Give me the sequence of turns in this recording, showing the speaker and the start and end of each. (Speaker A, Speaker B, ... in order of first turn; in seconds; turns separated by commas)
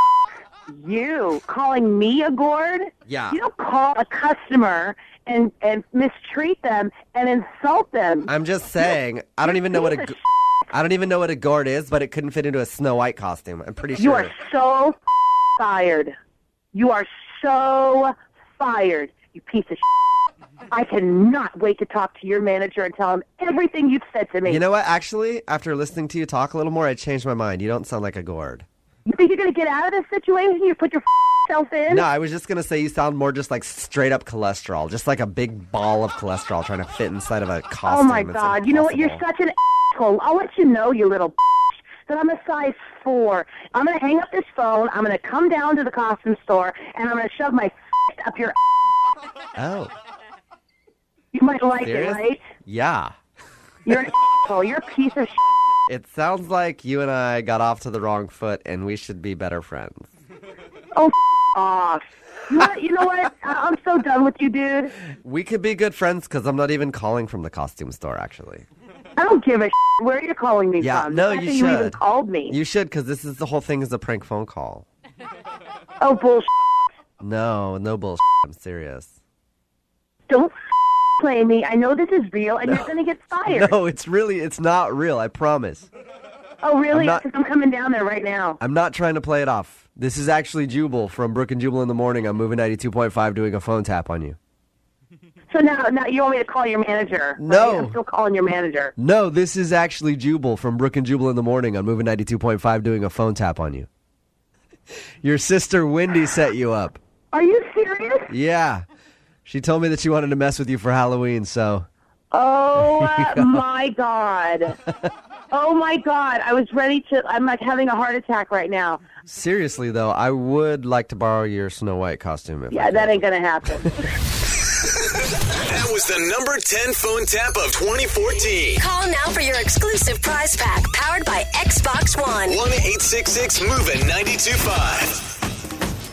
Speaker A: 0.7-8.3, Speaker B: 3.1-3.4, Speaker B: 8.3-10.2, Speaker A: 9.4-10.1, Speaker B: 10.7-14.3, Speaker A: 14.0-15.0, Speaker A: 15.6-16.1, Speaker A: 16.7-19.8, Speaker A: 20.7-24.6, Speaker B: 24.4-28.6, Speaker A: 29.1-32.1, Speaker B: 31.9-39.2, Speaker A: 37.9-41.4, Speaker A: 42.0-48.5, Speaker B: 49.5-49.9, Speaker A: 51.3-52.4, Speaker B: 51.8-53.1, Speaker A: 53.9-55.4, Speaker B: 55.9-60.1, Speaker A: 60.9-64.9, Speaker B: 65.2-68.7, Speaker A: 69.2-72.6, Speaker B: 70.8-74.8, Speaker A: 76.0-76.5, Speaker B: 77.2-79.1, Speaker A: 81.2-83.7, Speaker B: 83.5-85.9, Speaker A: 86.6-88.6, Speaker B: 86.9-87.2, Speaker B: 88.6-94.4, Speaker A: 95.5-98.9, Speaker B: 97.4-98.0, Speaker B: 99.0-103.9, Speaker B: 105.2-107.0, Speaker A: 107.3-108.3, Speaker B: 108.3-108.8, Speaker B: 109.5-111.9, Speaker A: 112.3-114.8, Speaker B: 112.8-113.6, Speaker A: 115.5-119.0, Speaker B: 119.3-123.2, Speaker A: 122.7-124.0, Speaker C: 125.5-128.8, Speaker D: 128.8-132.6, Speaker C: 132.4-135.2